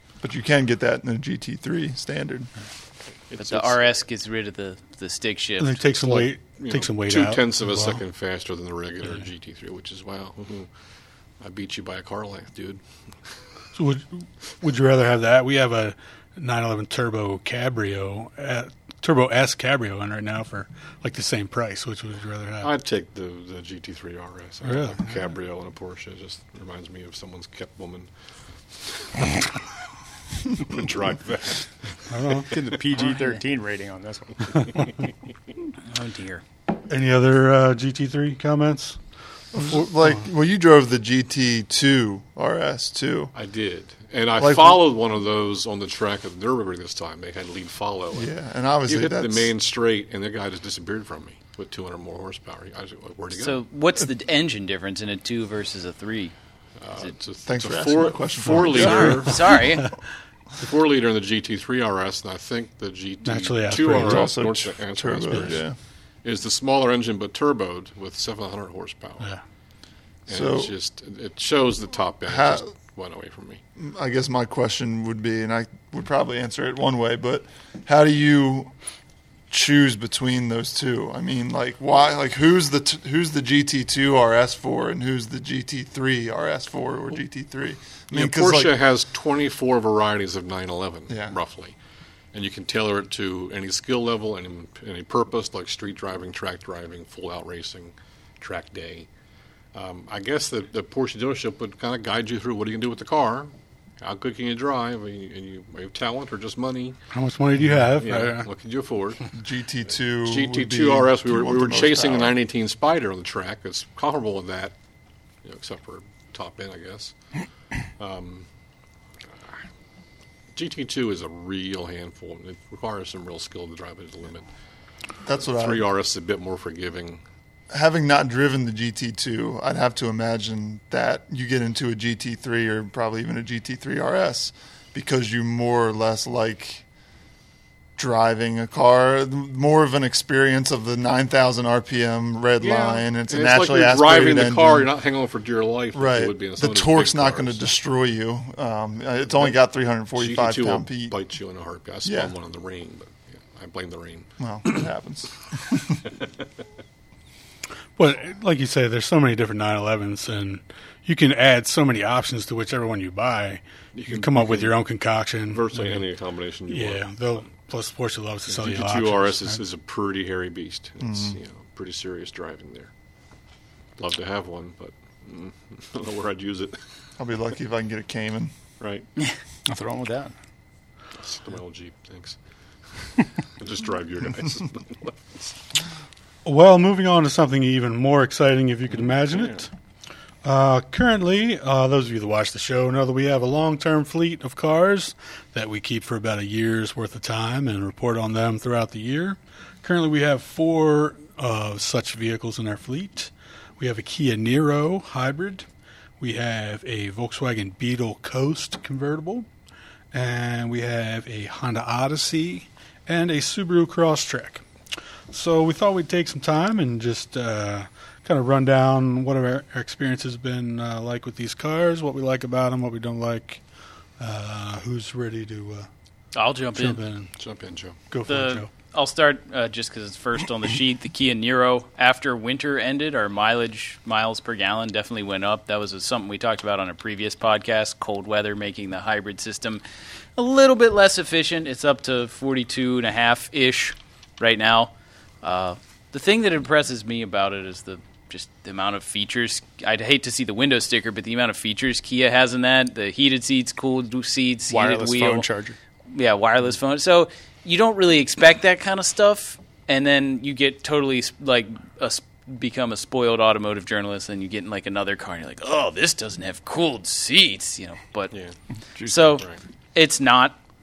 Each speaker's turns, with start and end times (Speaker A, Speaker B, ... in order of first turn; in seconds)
Speaker A: 0.2-2.5, 39.5-43.3, 44.4-44.8, 48.1-49.5, 57.5-59.2, 63.9-65.7, 70.3-70.7, 72.3-72.7, 73.8-78.7, 79.5-88.7, 91.1-91.3, 109.3-112.3, 125.2-125.9, 127.7-136.8, 138.0-144.9, 145.9-151.1, 152.1-152.3, 154.4-156.0, 171.0-171.3, 177.2-178.5
Speaker B: 3.3-3.9, 6.0-10.7, 11.4-12.8, 22.6-28.1, 29.0-29.5, 30.5-32.5, 43.3-48.3, 48.9-53.6, 56.8-59.5, 60.6-65.6, 66.2-69.3, 70.3-73.6, 88.1-91.8, 92.3-99.1, 99.7-107.0, 108.0-109.2, 110.2-114.7, 115.4-117.1, 118.0-118.5, 120.5-124.5, 125.5-127.2, 142.6-147.6, 150.2-154.3, 163.9-164.8, 165.5-167.0, 168.5-172.9, 174.0-176.8, 178.8-179.1, 181.2-182.4, 183.0-185.5, 188.9-189.7, 227.4-228.0
Speaker C: 3.3-5.9, 33.0-33.4, 35.9-36.4, 53.3-56.3, 58.7-59.9, 226.3-227.0, 228.2-239.8, 240.4-255.4, 256.1-268.3, 269.0-270.6
Speaker D: 5.6-8.0, 13.8-22.7, 24.6-25.1, 32.1-32.5, 36.9-39.0, 59.3-59.9, 63.2-64.5, 107.1-108.5, 158.0-166.0, 166.7-169.6, 186.4-189.7, 190.4-205.7, 206.2-209.4, 210.1-214.6, 215.3-223.6, 224.2-225.9, 226.7-227.3, 228.1-228.7
Speaker E: 32.5-34.9, 179.7-180.3, 254.7-255.8, 268.9-269.4